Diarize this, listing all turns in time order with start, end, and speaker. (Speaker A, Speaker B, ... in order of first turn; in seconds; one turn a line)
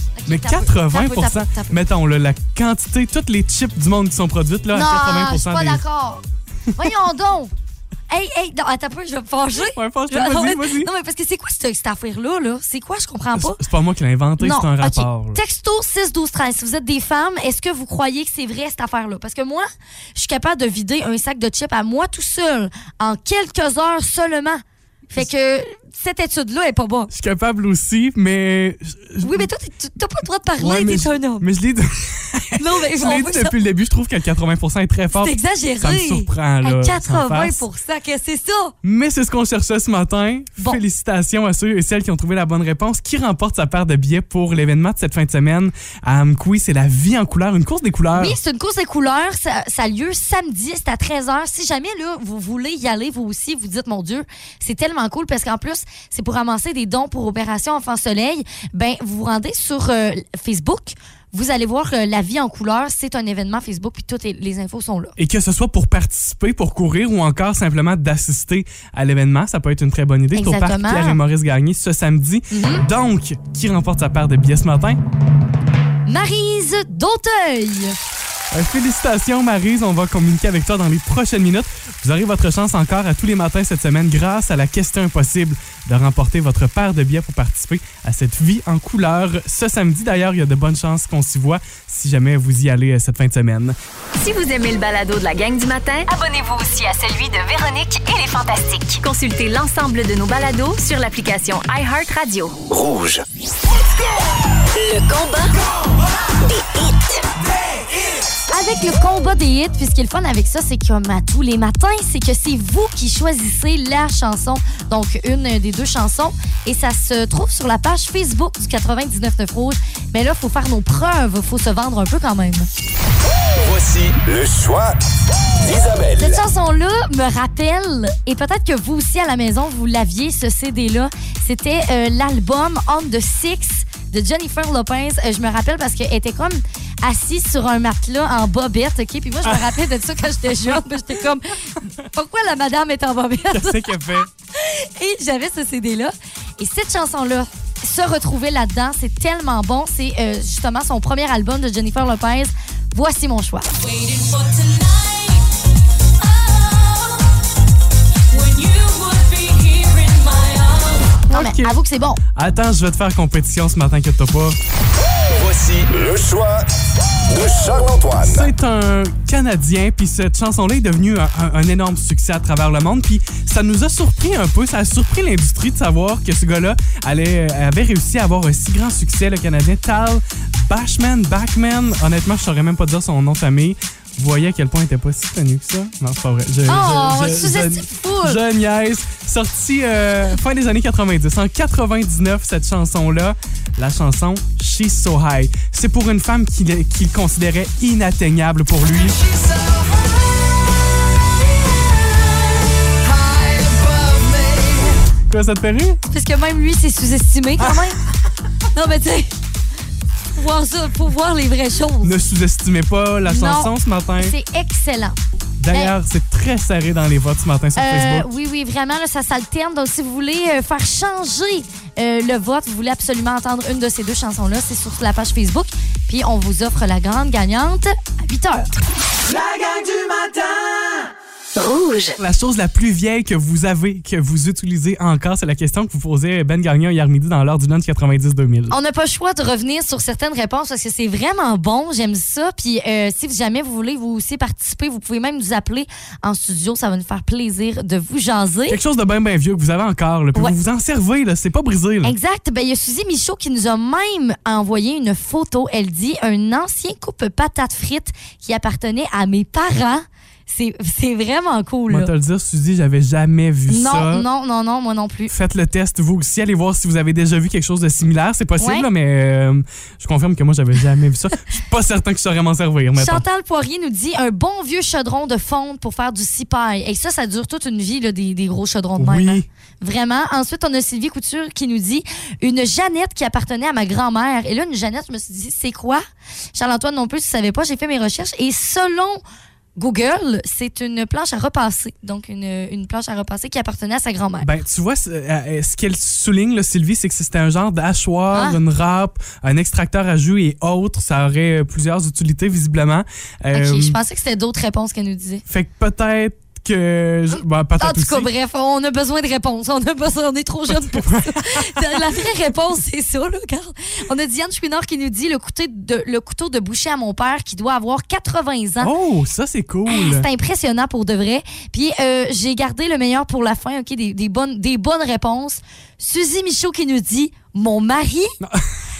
Speaker A: 0.1-1.8
Speaker B: 0.3-5.8
Speaker A: 4.7-7.5
Speaker A: 8.1-13.6
Speaker B: 9.6-10.9
Speaker B: 13.3-15.4
Speaker A: 14.4-24.6
Speaker A: 25.1-27.1
Speaker B: 27.1-29.5
Speaker A: 29.2-31.5
Speaker B: 30.6-37.6
Speaker A: 32.5-33.5
Speaker A: 35.1-38.7
Speaker B: 38.8-48.4
Speaker A: 48.1-65.2
Speaker B: 65.2-75.0
Speaker A: 70.3-71.2
Speaker A: 72.5-72.8
Speaker A: 76.1-78.0
Speaker B: 78.5-93.8
Speaker C: 94.1-102.6
Speaker D: 102.7-103.2
Speaker C: 104.7-105.6
Speaker C: 106.4-107.2
Speaker A: 108.5-122.7
Speaker D: 123.5-125.0
Speaker D: 125.5-126.4
Speaker A: 126.2-153.8
Speaker B: 139.4-139.7
Speaker B: 143.5-144.3
Speaker C: 153.9-155.4
Speaker C: 156.5-157.0
Speaker C: 158.3-161.1
Speaker A: 161.2-162.2
Speaker B: 161.3-161.8
Speaker B: 162.3-164.6
Speaker D: 165.2-166.7
Speaker D: 167.2-168.5
Speaker B: 168.2-199.2
Speaker A: 186.7-188.4
Speaker D: 203.2-204.6
Speaker B: 205.3-206.0
Speaker A: 206.1-208.0
Speaker B: 207.6-207.9
Speaker A: 208.7-209.3
Speaker A: 210.3-212.2
Speaker B: 212.0-214.3
Speaker A: 213.2-215.2
Speaker B: 215.6-218.3
Speaker A: 217.8-228.8
Speaker C: 231.6-232.1
Speaker B: 232.2-238.7
Speaker A: 238.7-248.8
Speaker B: 248.7-252.2
Speaker A: 252.0-262.1
Speaker B: 261.9-264.2
Speaker A: 263.7-265.3
Speaker B: 265.3-273.2
Speaker A: 268.6-268.9
Speaker A: 272.9-286.0
Speaker B: 279.0-279.4
Speaker A: 286.5-289.2
Speaker A: 289.8-294.5
Speaker B: 294.4-304.0
Speaker A: 298.3-298.6
Speaker A: 303.5-305.4
Speaker B: 305.5-308.3
Speaker A: 307.8-318.9
Speaker B: 310.7-312.0
Speaker B: 318.8-320.3
Speaker A: 319.9-328.4
Speaker B: 328.4-328.7